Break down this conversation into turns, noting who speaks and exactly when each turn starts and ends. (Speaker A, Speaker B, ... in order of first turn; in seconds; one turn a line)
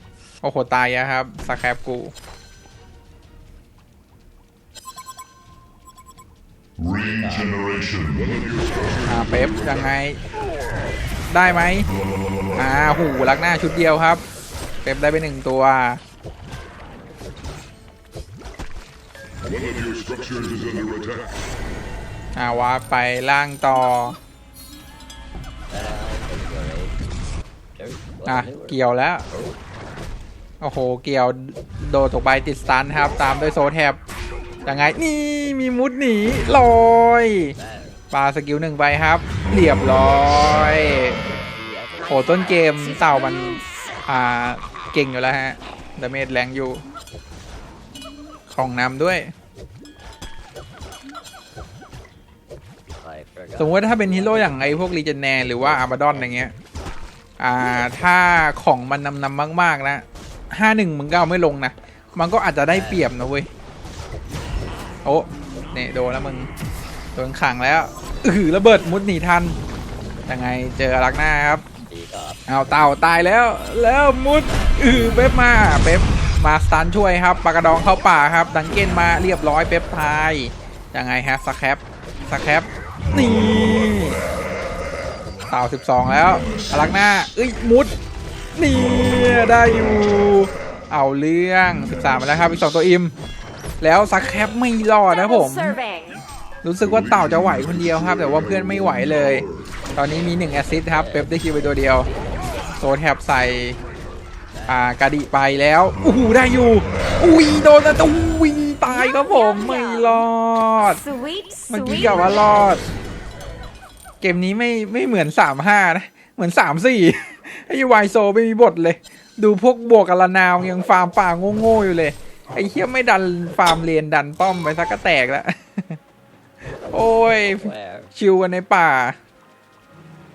Speaker A: 0.4-2.1
Speaker B: 6.8-7.7
Speaker C: 7.2-8.9
Speaker A: 9.0-10.2
Speaker A: 11.3-11.9
Speaker A: 12.5-14.2
Speaker A: 14.8-16.0
Speaker C: 20.0-20.7
Speaker A: 22.4-24.2
Speaker B: 25.7-27.0
Speaker B: 27.7-29.6
Speaker A: 28.2-29.2
Speaker A: 30.6-34.0
Speaker A: 34.6-37.5
Speaker B: 37.5-38.0
Speaker A: 38.1-41.2
Speaker B: 40.6-42.5
Speaker A: 42.1-46.8
Speaker A: 48.5-49.3
Speaker B: 53.0-56.5
Speaker A: 53.6-56.5
Speaker A: 57.4-63.5
Speaker B: 62.7-63.1
Speaker A: 65.0-66.5
Speaker A: 67.1-69.6
Speaker A: 70.3-71.7
Speaker B: 71.9-72.4
Speaker A: 72.5-84.2
Speaker B: 74.5-75.0
Speaker A: 85.5-87.9
Speaker A: 88.5-93.1
Speaker A: 93.8-95.8
Speaker D: 95.1-96.2
Speaker A: 96.6-102.1
Speaker B: 99.8-102.8
Speaker A: 102.8-103.8
Speaker B: 103.8-104.9
Speaker A: 104.7-111.0
Speaker D: 108.8-110.2
Speaker D: 110.9-112.6
Speaker A: 111.7-112.8
Speaker B: 112.2-113.0
Speaker A: 114.2-126.0
Speaker B: 126.8-128.1
Speaker A: 126.9-129.2